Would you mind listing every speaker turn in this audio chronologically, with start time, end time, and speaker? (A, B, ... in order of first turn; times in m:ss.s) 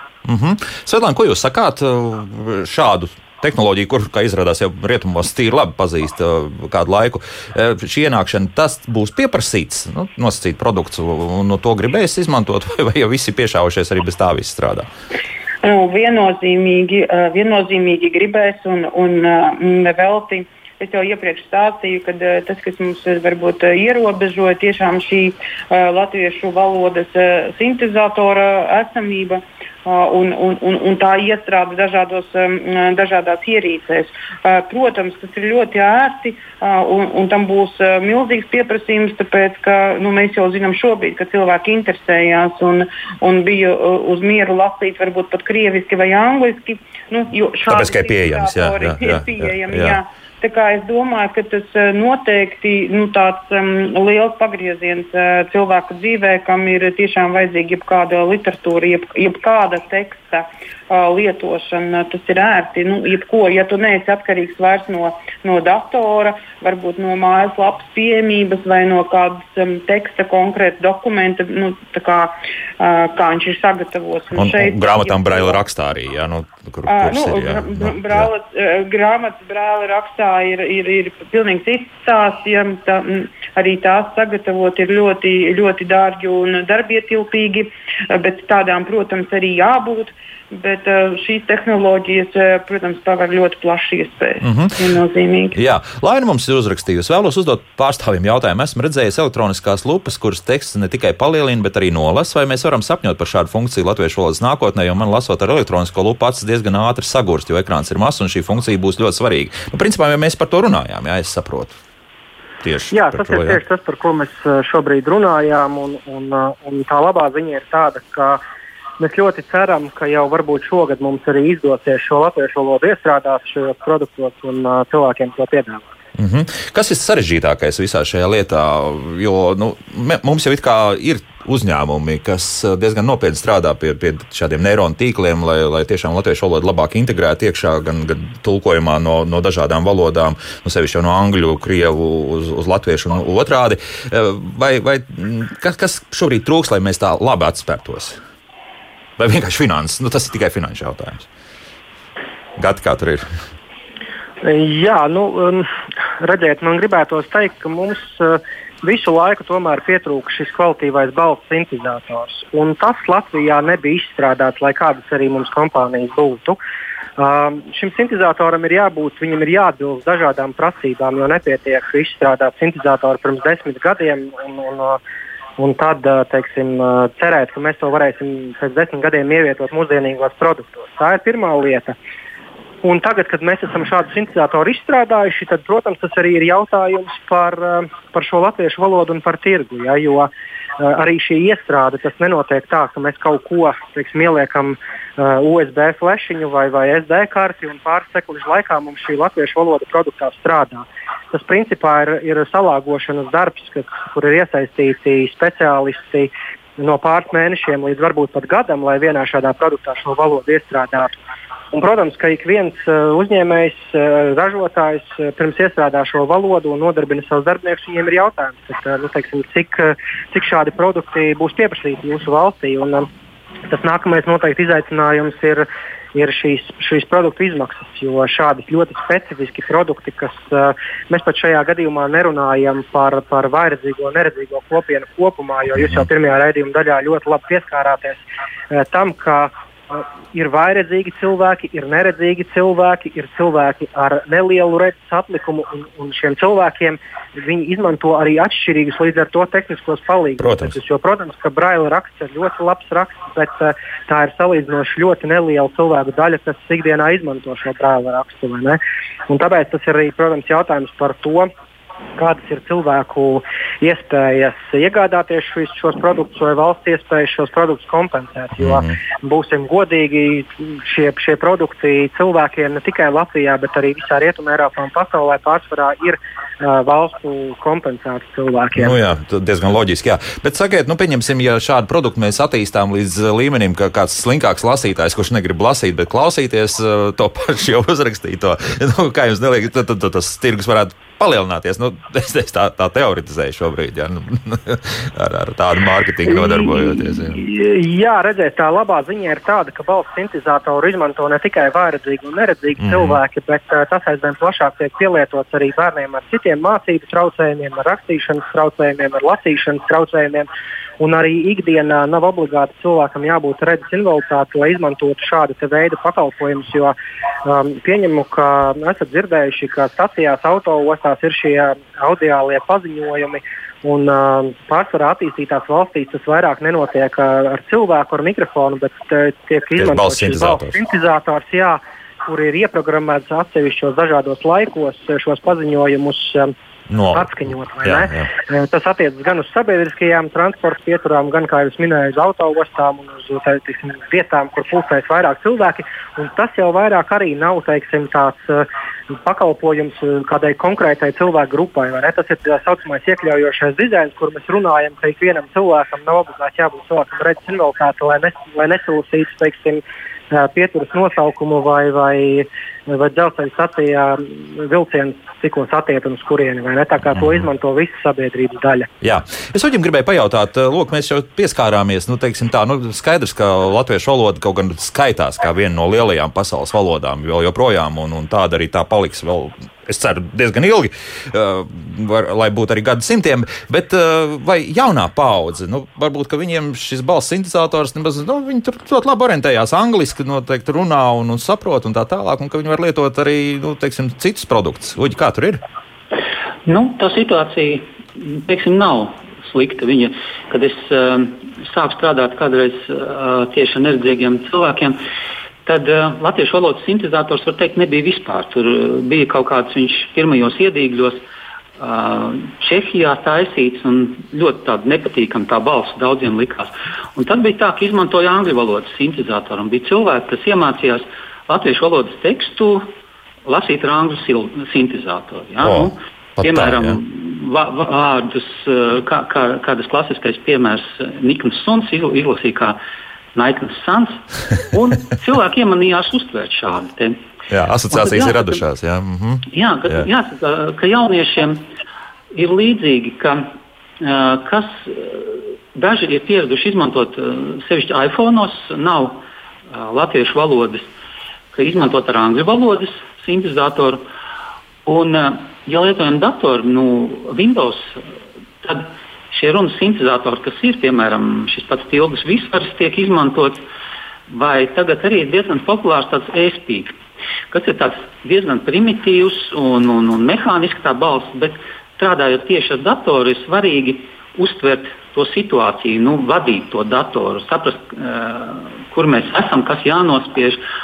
0:00.2-0:14.9 A
0:15.6-1:15.6 B
0:47.7-0:50.0 A
1:14.4-1:18.3 A
1:16.9-1:35.6 B
1:34.4-1:34.7 A
1:35.5-1:51.8 A
1:52.6-1:53.6 A
1:52.9-1:58.4 C
1:59.0-2:05.9 C
2:06.2-2:28.2 A
2:29.2-2:31.3 A
2:32.6-2:33.3 A
2:34.4-2:35.7 C
2:36.2-2:46.6 C
2:47.2-2:55.0 C
2:55.6-3:02.0 C
3:02.8-3:31.1 C
3:31.7-3:43.1 C
3:43.7-4:21.5 C
3:55.8-3:56.0 A
4:10.4-4:10.8 A
4:22.2-4:39.0 C
4:28.6-4:28.9 A
4:38.8-4:57.4 A
4:56.2-5:10.5 C
5:02.8-5:03.2 A
5:11.0-5:16.9 C
5:17.4-5:36.5 C
5:29.8-5:30.8 A
5:36.9-5:38.3 A
5:37.1-6:08.9 C
6:07.1-6:07.4 A
6:09.0-6:35.6 A
6:36.6-6:45.0 D
6:45.6-6:51.2 D
6:51.8-7:02.9 D
7:03.4-7:12.8 D
7:05.6-7:07.0 A
7:13.3-7:17.2 D
7:17.5-7:20.1 A
7:17.9-7:18.6 D
7:19.5-7:21.6 D
7:22.3-7:23.5 D
7:24.0-7:30.9 D
7:31.5-7:34.0 D
7:34.8-7:38.0 D
7:38.6-7:43.6 D
7:44.3-7:47.0 D
7:47.5-8:00.6 D